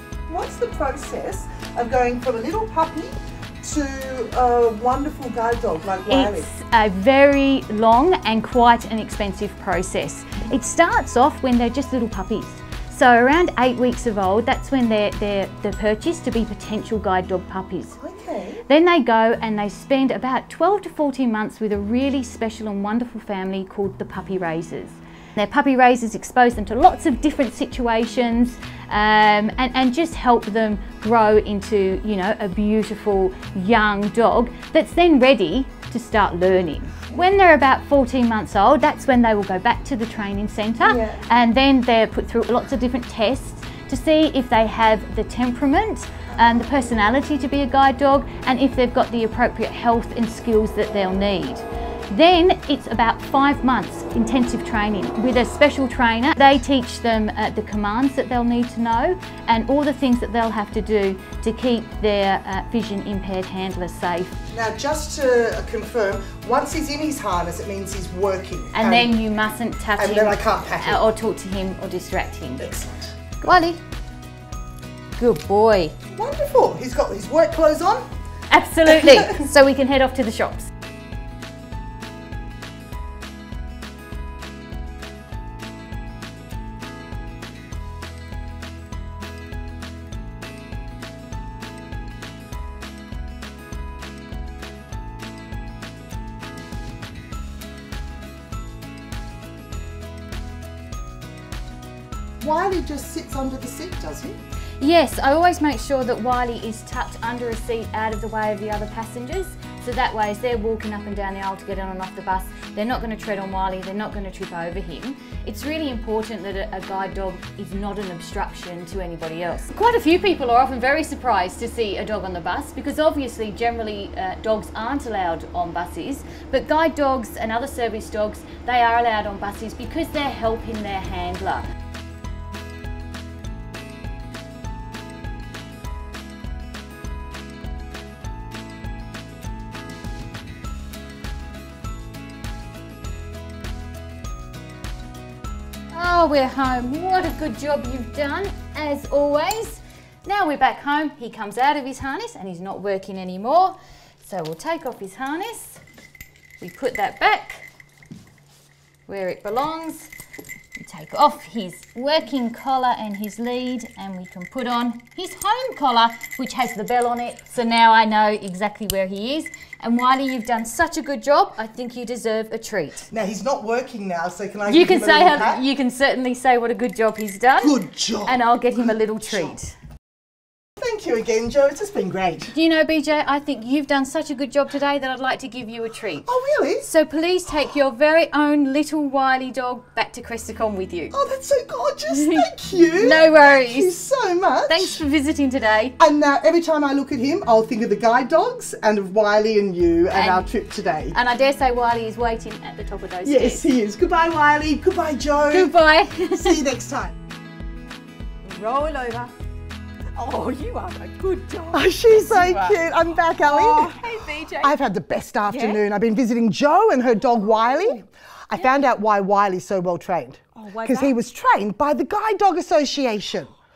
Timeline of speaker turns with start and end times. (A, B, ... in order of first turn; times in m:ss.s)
0:00.3-0:06.5 A
0:06.1-0:18.0 B
0:18.0-0:18.6 A
0:18.7-1:04.4 B
0:40.8-0:41.2 A
1:04.5-1:09.1 A
1:08.7-1:12.7 B
1:10.0-1:11.0 A
1:12.6-1:13.2 A
1:13.4-1:13.8 B
1:15.2-1:16.0 B
1:16.1-1:18.0 A
1:18.5-1:20.7 B
1:18.8-1:19.4 A
1:42.4-1:44.4 A
1:44.8-2:11.6 B
2:25.9-2:35.8 B
2:36.6-2:37.7 B
2:39.1-2:40.1 B
2:40.8-2:53.1 B
2:53.1-2:55.6 A
2:54.6-2:59.8 B
2:57.6-2:59.6 A
3:00.8-3:02.5 A
3:02.5-3:06.3 B
3:06.2-3:06.9 A
3:06.8-3:11.2 B
3:11.1-3:15.0 A
3:12.1-3:14.0 B
3:14.6-3:16.0 B
3:16.0-3:21.2 A
3:20.1-3:20.5 B
3:21.1-3:23.6 B
3:23.2-3:27.1 A
3:25.5-3:26.6 B
3:28.4-3:29.4 C
3:30.2-3:34.8 C
3:31.7-3:34.0 A
3:34.6-3:43.5 A
3:35.4-3:35.8 C
3:37.4-3:38.0 C
3:38.6-3:38.8 C
3:40.5-3:41.2 C